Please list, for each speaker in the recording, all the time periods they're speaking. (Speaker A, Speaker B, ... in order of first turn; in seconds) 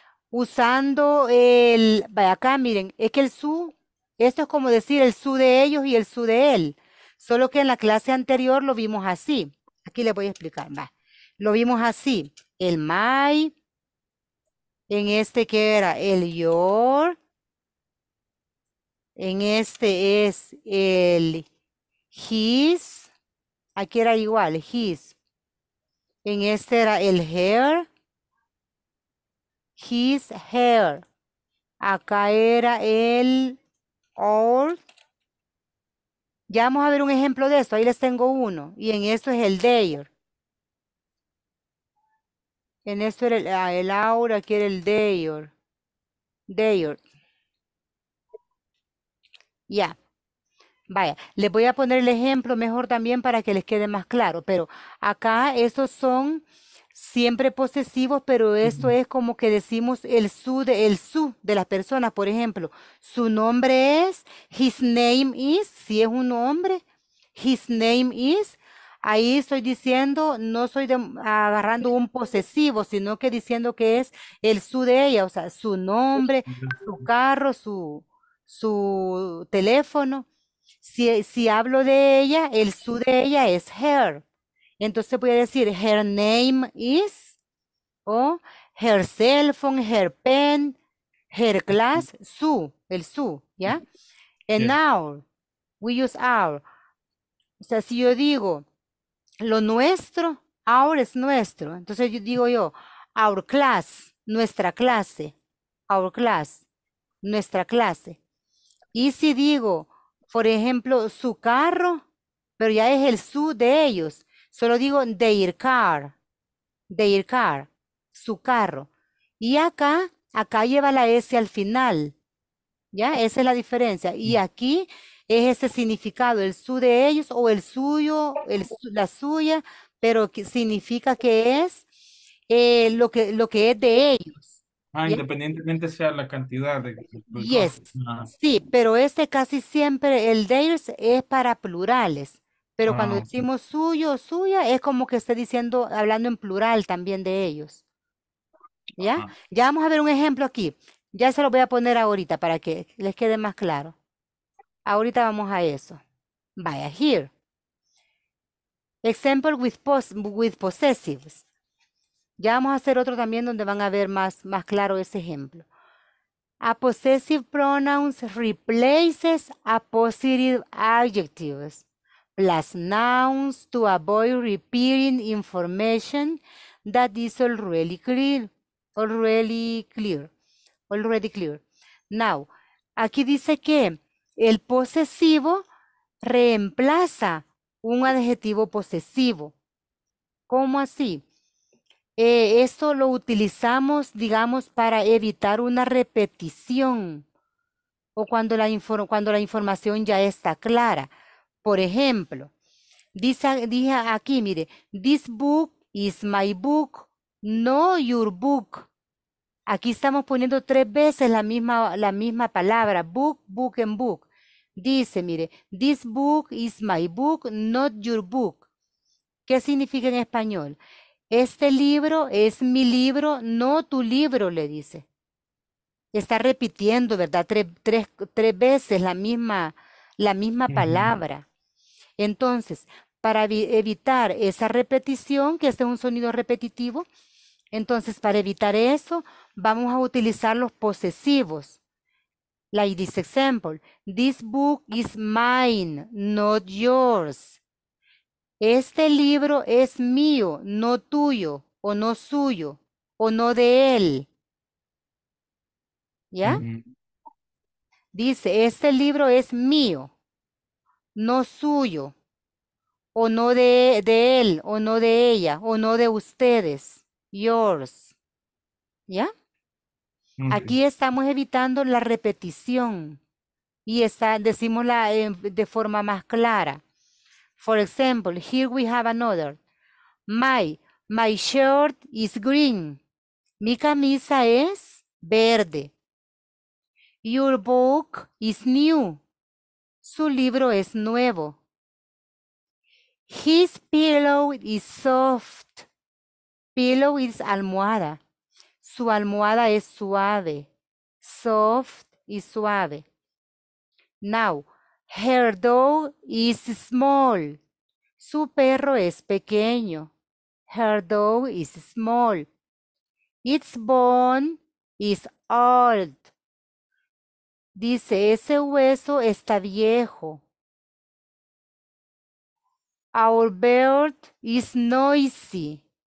Speaker A: 0.3-13.5, 14.9-17.2, 19.2-21.4, 22.1-23.1, 23.8-25.1, 26.2-27.9, 29.8-31.0, 31.8-33.6, 34.2-34.8, 36.5-40.1, 42.8-45.5, 46.5-47.0, 49.7-50.0, 50.9-56.4, 56.9-66.8, 67.3-80.3, 80.8-84.2, 84.8-87.4, 88.0-90.8, 91.3-93.8, 94.5-95.2, 95.8-96.6, 97.6-98.6, 99.4-105.3, 105.9-106.6, 107.2-108.2, 108.9-112.0, 112.6-116.1, 116.9-118.9, 119.4-122.1, 122.9-131.8, 132.5-135.2, 137.3-147.8, 149.0-153.9, 154.8-156.0, 156.6-157.3, 159.0-161.4, 162.4-165.7, 166.6-171.8, 172.4-180.3, 180.9-185.7, 186.2-189.5, 190.5-191.2, 192.2-197.2, 198.2-201.1, 201.6-202.5, 203.1-208.9, 209.7-218.6, 219.5-220.8, 221.3-225.0, 226.1-231.4, 232.2-237.1, 237.7-241.8, 242.7-247.6, 248.6-254.3, 256.3-256.6, 258.1-260.1, 261.1-262.1, 263.1-268.1, 270.5-273.2, 273.9-276.8, 277.6-279.6, 280.3-283.0, 283.6-285.9, 287.2-289.2, 290.0-291.6, 293.3-295.9, 296.7-298.2, 298.8-300.7, 301.2-303.1, 304.2-307.6, 308.2-310.1, 310.7-312.5, 313.4-316.3, 317.7-320.4, 323.1-325.8
Speaker B: 58.6-58.9, 76.5-76.8, 134.9-138.3, 142.8-143.5, 149.0-149.3, 230.7-231.1, 256.4-256.8, 270.4-270.8